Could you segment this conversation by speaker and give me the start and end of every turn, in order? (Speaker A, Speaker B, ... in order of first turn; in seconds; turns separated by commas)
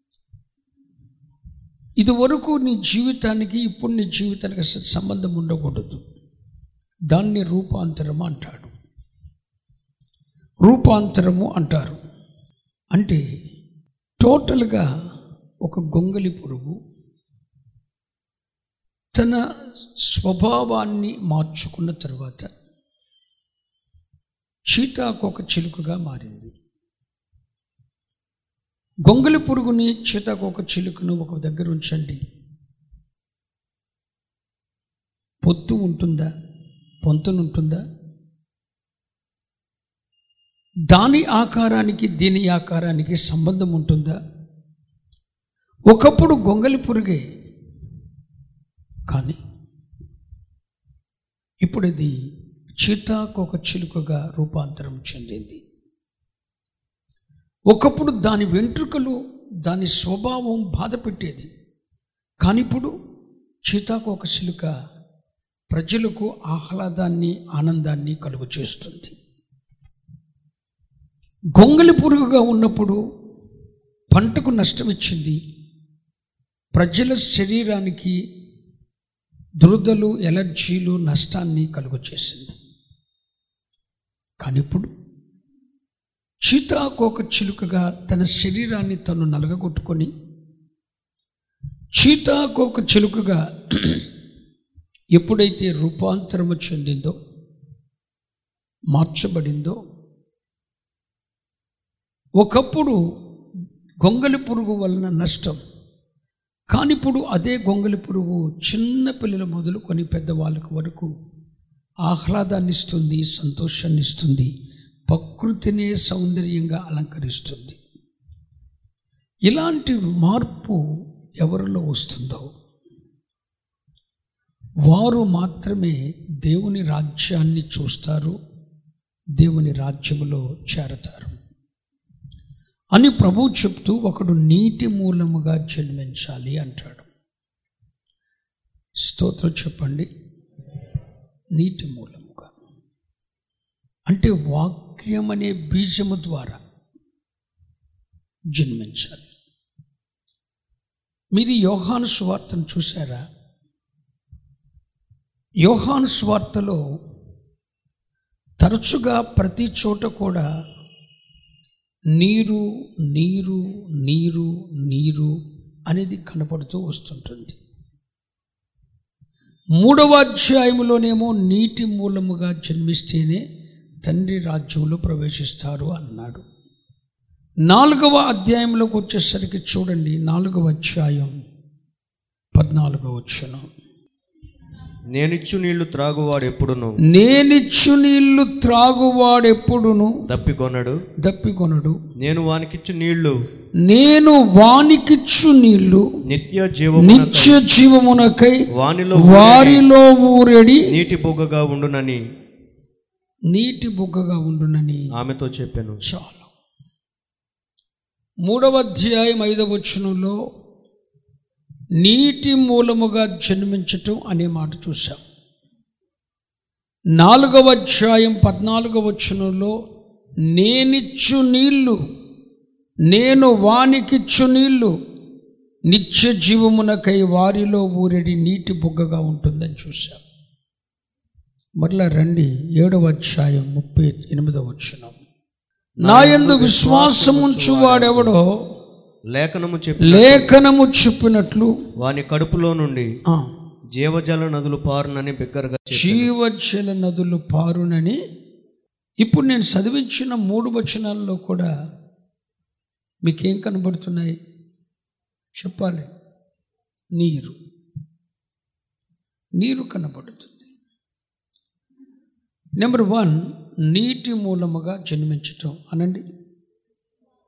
Speaker A: 2.0-6.0, Speaker A: 7.1-8.7, Speaker A: 10.7-12.0, Speaker A: 12.9-13.2, Speaker A: 14.2-14.9, Speaker A: 15.7-16.8, Speaker A: 20.0-22.5, Speaker A: 24.7-26.5, Speaker A: 29.1-32.2, Speaker A: 35.4-36.3, Speaker A: 37.0-37.8, Speaker A: 40.9-44.2, Speaker A: 45.9-47.2, Speaker A: 49.1-49.4, Speaker A: 51.6-52.1, Speaker A: 52.8-55.6, Speaker A: 57.7-61.5, Speaker A: 62.4-62.9, Speaker A: 63.7-64.7, Speaker A: 65.7-69.2, Speaker A: 71.5-73.0, Speaker A: 74.1-75.4, Speaker A: 76.8-78.2, Speaker A: 79.6-82.6, Speaker A: 84.4-84.9, Speaker A: 86.5-90.1, Speaker A: 92.0-94.0, Speaker A: 95.2-97.2, Speaker A: 98.9-99.8, Speaker A: 102.4-103.0, Speaker A: 104.0-105.6, Speaker A: 106.7-111.1, Speaker A: 112.1-114.5, Speaker A: 115.1-117.8, Speaker A: 119.5-120.8, Speaker A: 121.4-122.5, Speaker A: 124.9-128.4, Speaker A: 129.4-131.3, Speaker A: 132.9-137.1, Speaker A: 139.0-140.1, Speaker A: 141.6-142.5, Speaker A: 144.1-146.6, Speaker A: 148.5-149.3, Speaker A: 151.3-153.2, Speaker A: 155.7-156.8, Speaker A: 158.6-160.5, Speaker A: 162.2-165.3, Speaker A: 165.9-167.6, Speaker A: 169.8-173.4, Speaker A: 174.0-176.4, Speaker A: 177.7-181.3, Speaker A: 182.6-183.7, Speaker B: 185.1-187.0, Speaker A: 187.1-190.1, Speaker B: 190.3-191.0, Speaker A: 191.2-192.0, Speaker B: 192.2-193.3, Speaker A: 193.9-196.1, Speaker B: 196.3-197.6, Speaker A: 197.0-198.6, Speaker B: 198.8-199.8, Speaker A: 199.2-200.9, Speaker B: 200.9-202.2, Speaker A: 203.5-205.1, Speaker B: 205.2-206.0, Speaker A: 206.0-206.5, Speaker A: 208.5-210.4, Speaker A: 212.0-215.2, Speaker A: 217.2-219.7, Speaker A: 220.5-222.0, Speaker A: 223.1-224.9, Speaker A: 225.9-230.2, Speaker A: 231.8-235.2, Speaker B: 236.0-238.3, Speaker A: 236.0-238.5, Speaker B: 239.3-240.5, Speaker A: 240.0-241.7, Speaker B: 242.0-243.1, Speaker B: 243.9-246.3, Speaker A: 245.9-248.2, Speaker A: 249.2-251.7, Speaker A: 253.2-254.4, Speaker A: 255.6-256.1, Speaker A: 257.2-257.6, Speaker A: 259.6-260.7, Speaker A: 262.8-266.2